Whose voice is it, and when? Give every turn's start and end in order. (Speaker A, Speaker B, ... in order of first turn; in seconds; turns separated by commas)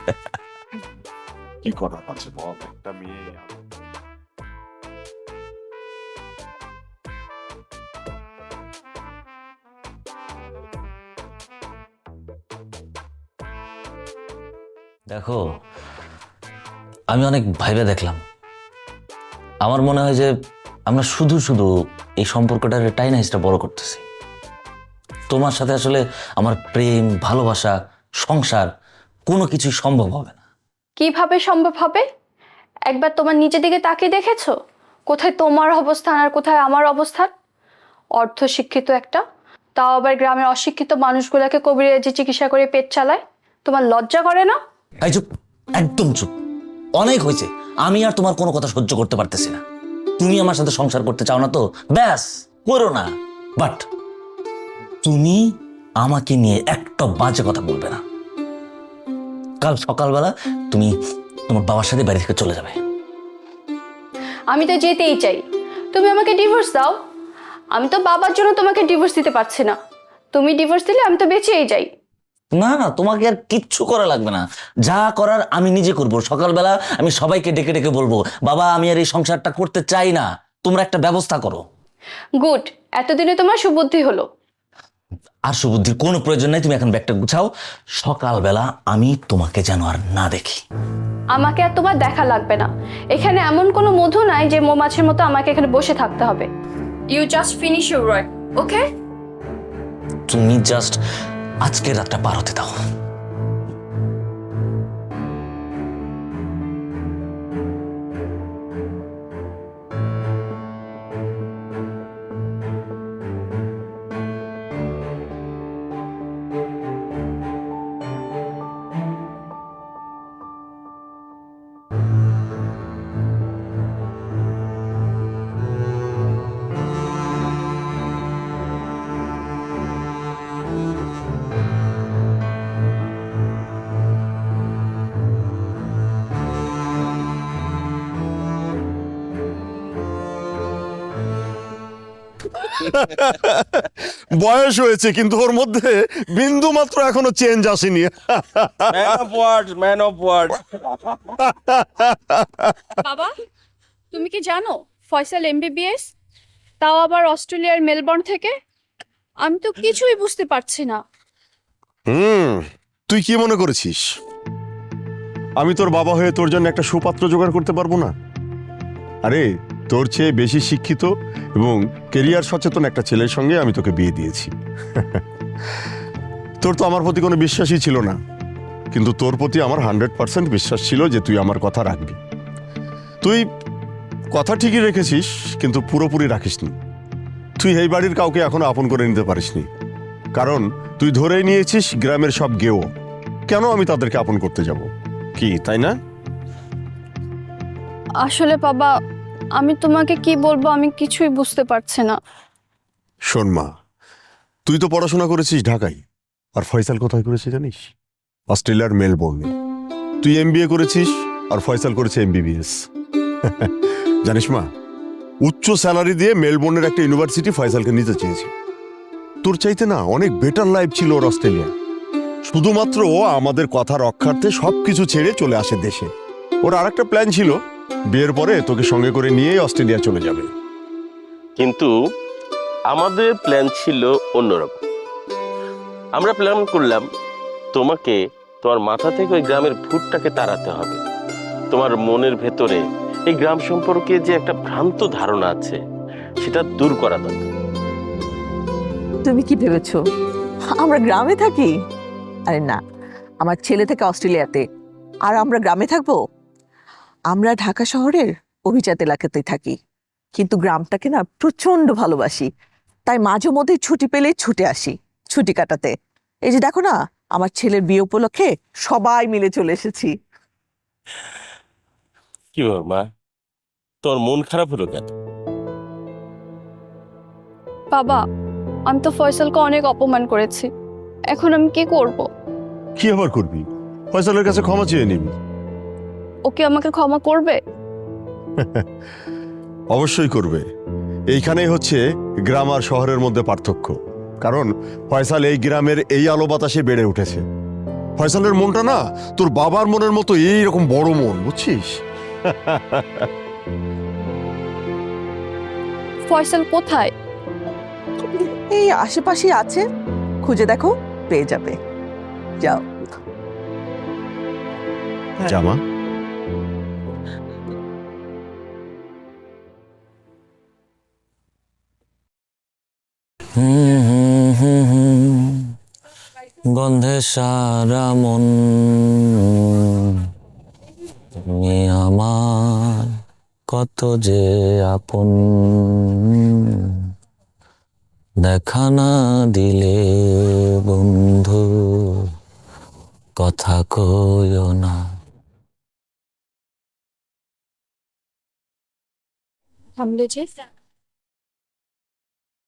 Speaker A: 1.6-3.5, Speaker B: 15.1-15.4, Speaker B: 17.1-18.2, Speaker B: 19.6-20.3, Speaker B: 20.9-21.7, Speaker B: 22.2-24.0, Speaker B: 25.3-28.7, Speaker B: 29.3-30.4, Speaker C: 31.0-32.0, Speaker C: 32.9-34.5, Speaker C: 35.1-37.3, Speaker C: 38.2-39.2, Speaker C: 39.8-44.6, Speaker B: 45.0-46.3, Speaker B: 47.0-49.6, Speaker B: 50.2-53.8, Speaker B: 55.0-55.4, Speaker B: 56.0-58.0, Speaker B: 59.6-60.9, Speaker B: 61.5-62.8, Speaker C: 64.5-65.4, Speaker C: 65.9-66.9, Speaker C: 67.7-69.7, Speaker C: 70.3-71.9, Speaker B: 72.5-81.6, Speaker C: 82.4-84.2, Speaker B: 85.5-90.6, Speaker C: 91.3-96.5, Speaker C: 97.1-98.8, Speaker B: 100.3-101.0, Speaker B: 101.6-102.7, Speaker A: 142.6-149.1, Speaker D: 148.9-151.2, Speaker A: 151.4-152.8, Speaker C: 153.0-153.3, Speaker C: 154.1-156.1, Speaker C: 156.8-158.5, Speaker C: 159.4-161.0, Speaker A: 162.1-164.0, Speaker A: 165.6-168.1, Speaker A: 169.2-175.2, Speaker A: 176.6-178.2, Speaker A: 178.9-182.2, Speaker A: 184.3-186.7, Speaker A: 187.6-189.7, Speaker A: 190.3-192.9, Speaker A: 193.5-195.9, Speaker C: 198.2-198.9, Speaker C: 199.6-202.1, Speaker A: 203.3-203.7, Speaker A: 204.7-206.0, Speaker A: 206.6-207.9, Speaker A: 208.5-209.5, Speaker A: 210.2-212.7, Speaker A: 214.2-214.7, Speaker A: 215.4-218.5, Speaker A: 219.4-221.7, Speaker A: 222.5-226.1, Speaker A: 226.6-227.6, Speaker A: 228.1-230.5, Speaker D: 231.6-231.9, Speaker D: 232.9-234.8, Speaker D: 236.2-237.1, Speaker D: 237.7-241.0, Speaker D: 241.7-245.8, Speaker D: 246.4-247.5, Speaker E: 249.2-250.0, Speaker E: 250.8-251.7, Speaker E: 252.5-252.8, Speaker E: 253.4-254.6, Speaker E: 255.3-256.2, Speaker E: 257.3-259.8, Speaker E: 260.3-262.5, Speaker E: 263.1-265.9, Speaker E: 266.4-270.1, Speaker D: 272.5-273.1, Speaker D: 274.0-275.1, Speaker C: 277.9-278.2, Speaker C: 278.9-280.7, Speaker C: 281.3-282.3, Speaker A: 283.0-285.3, Speaker C: 286.5-287.6, Speaker A: 288.6-288.8, Speaker A: 289.9-290.6, Speaker A: 291.3-297.4, Speaker A: 298.2-303.3, Speaker C: 306.3-307.1, Speaker E: 308.4-309.8, Speaker E: 310.4-311.7, Speaker A: 315.4-315.8, Speaker B: 323.6-325.7, Speaker B: 326.6-330.3, Speaker B: 331.4-333.2, Speaker B: 333.7-337.1, Speaker B: 338.4-342.3, Speaker B: 343.4-345.0, Speaker C: 350.0-350.5